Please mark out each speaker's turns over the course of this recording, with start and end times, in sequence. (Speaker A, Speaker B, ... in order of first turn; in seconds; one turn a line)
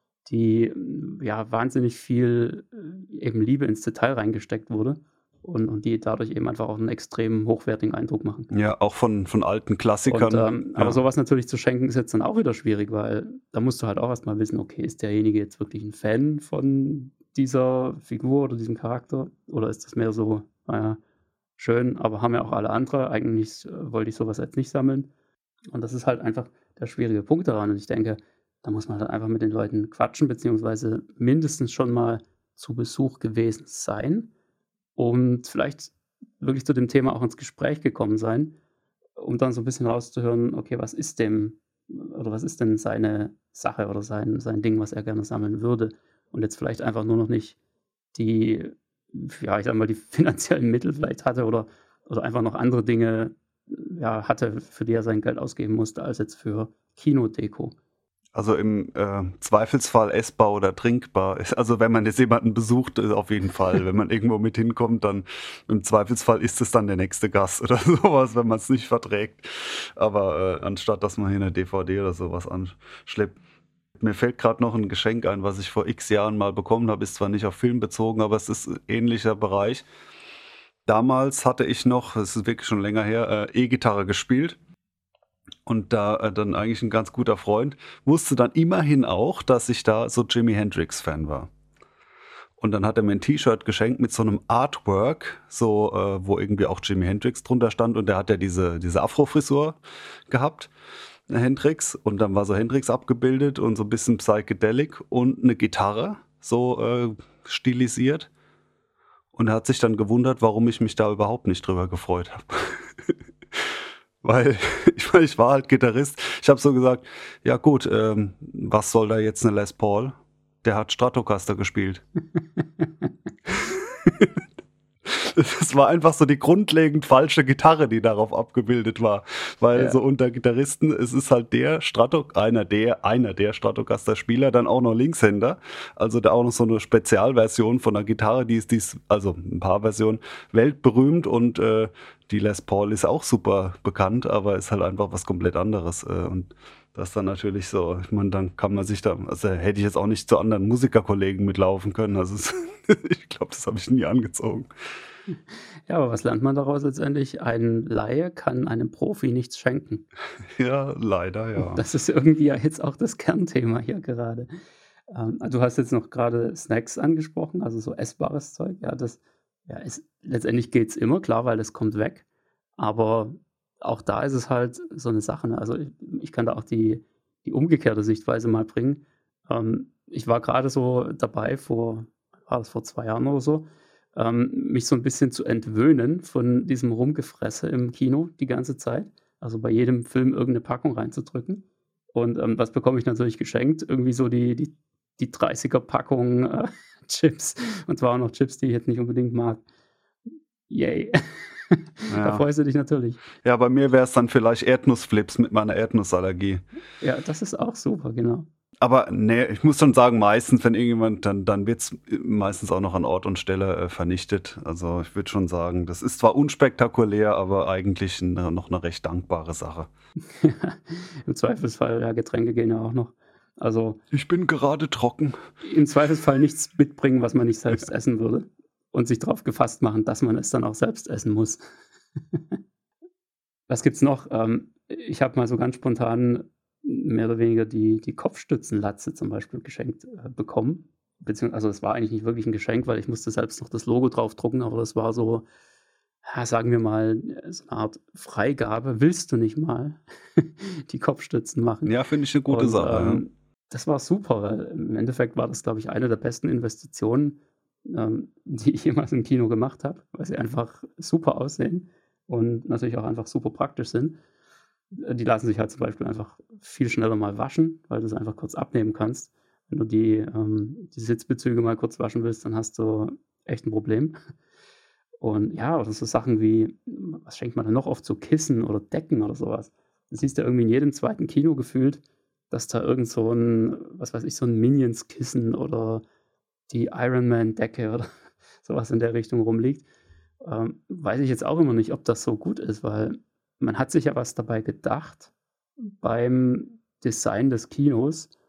Speaker A: 0.3-8.5
Speaker B: 8.5-11.0
Speaker A: 10.1-21.0
Speaker A: 21.6-25.1
Speaker A: 25.7-34.3
Speaker A: 35.0-38.6
Speaker A: 39.2-47.6
Speaker A: 48.1-57.8
Speaker B: 58.4-73.4
Speaker B: 74.0-79.9
Speaker B: 80.9-84.6
Speaker B: 85.7-91.5
Speaker B: 92.6-100.7
Speaker B: 101.3-108.3
Speaker B: 109.3-122.0
Speaker B: 123.5-124.4
Speaker B: 125.0-154.7
Speaker A: 155.9-160.0
Speaker B: 160.6-161.8
Speaker A: 161.6-164.5
Speaker A: 165.1-172.2
Speaker A: 172.8-199.6
Speaker A: 200.7-203.2
Speaker B: 202.1-202.4
Speaker B: 203.4-206.6
Speaker A: 207.0-208.5
Speaker B: 208.8-219.9
Speaker A: 220.3-224.0
Speaker B: 224.1-225.4
Speaker A: 225.6-231.6
Speaker A: 233.7-245.5
Speaker A: 246.2-251.9
Speaker B: 251.8-253.2
Speaker A: 252.5-264.2
Speaker A: 264.9-274.2
Speaker A: 275.2-286.0
Speaker A: 286.7-288.1
Speaker A: 288.6-289.9
Speaker A: 290.4-295.3
Speaker A: 296.0-298.3